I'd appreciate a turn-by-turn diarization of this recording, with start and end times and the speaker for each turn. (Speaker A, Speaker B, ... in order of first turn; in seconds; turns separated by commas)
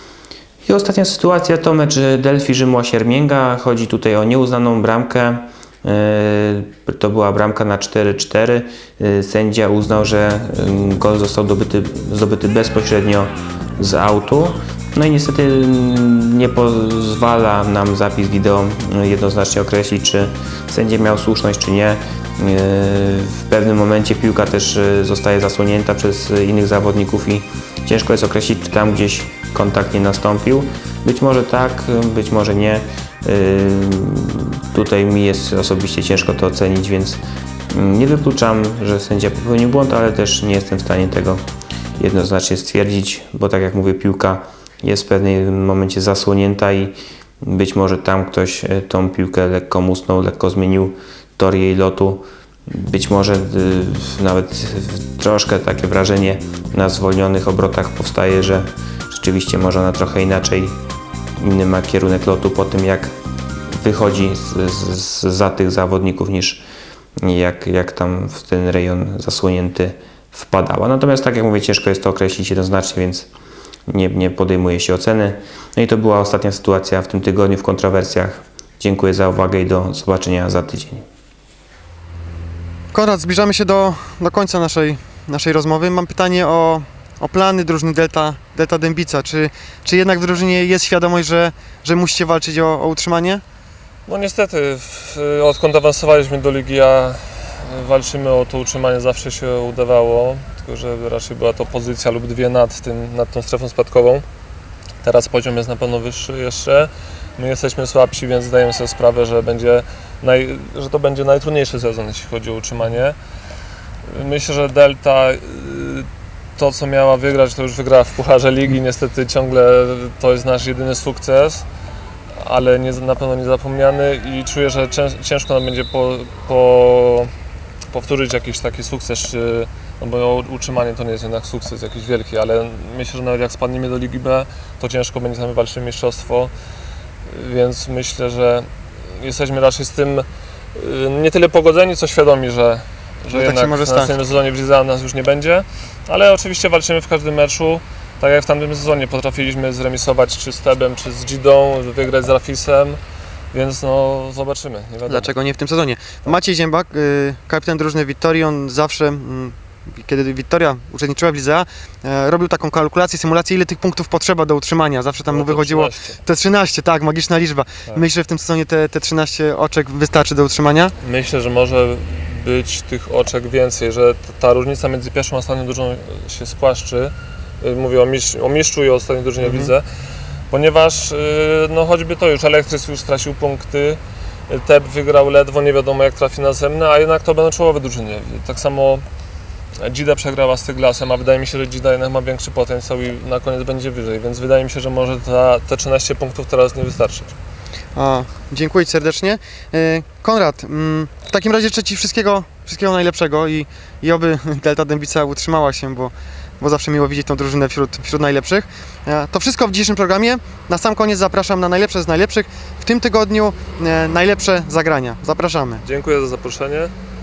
Speaker A: 0.7-41.4, Speaker A: 42.0-60.8, Speaker A: 61.4-63.1, Speaker A: 63.7-66.6, Speaker A: 67.2-73.3, Speaker A: 73.9-81.0, Speaker B: 82.9-93.4, Speaker C: 94.1-104.2, Speaker C: 105.0-113.2, Speaker C: 114.1-121.7, Speaker C: 122.4-127.3, Speaker C: 127.9-136.5, Speaker C: 137.3-153.0, Speaker B: 143.3-144.2, Speaker C: 153.5-155.3, Speaker B: 155.1-170.9, Speaker C: 165.3-166.2, Speaker C: 171.0-179.8, Speaker B: 179.4-179.7, Speaker C: 180.5-184.0, Speaker C: 184.5-189.0, Speaker C: 189.8-197.3, Speaker B: 197.9-215.8, Speaker C: 215.8-216.9